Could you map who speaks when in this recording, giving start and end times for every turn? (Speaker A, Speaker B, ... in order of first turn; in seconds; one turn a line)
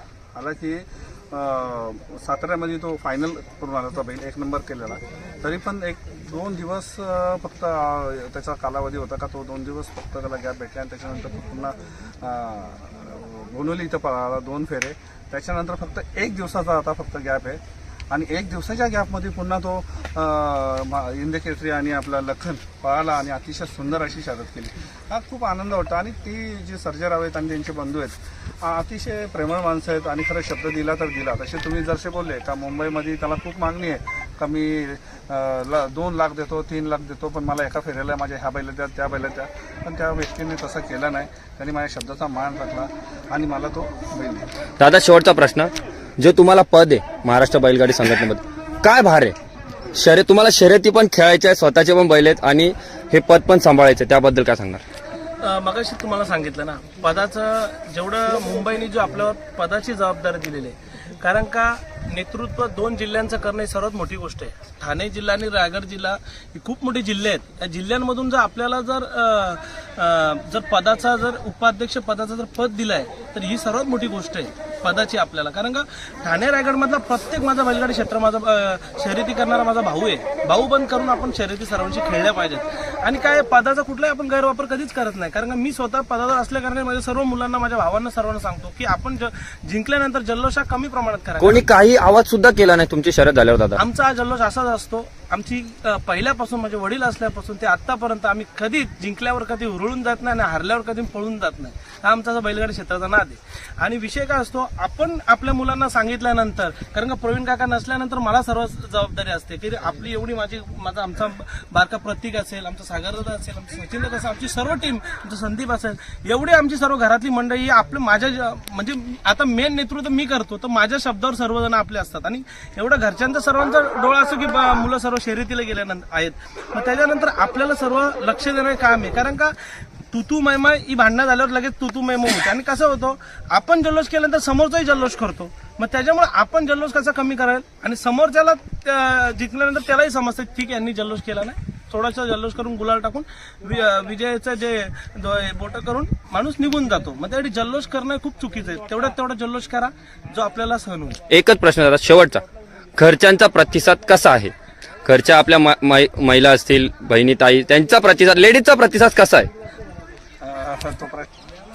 Speaker A: 0.3-44.5
Speaker B: 44.8-49.3
Speaker B: 49.9-54.8
Speaker C: 55.4-91.7
Speaker B: 91.4-93.8
Speaker C: 93.8-129.6
Speaker C: 130.1-151.2
Speaker B: 151.3-152.4
Speaker B: 153.0-154.5
Speaker B: 155.0-159.5
Speaker A: 160.4-161.3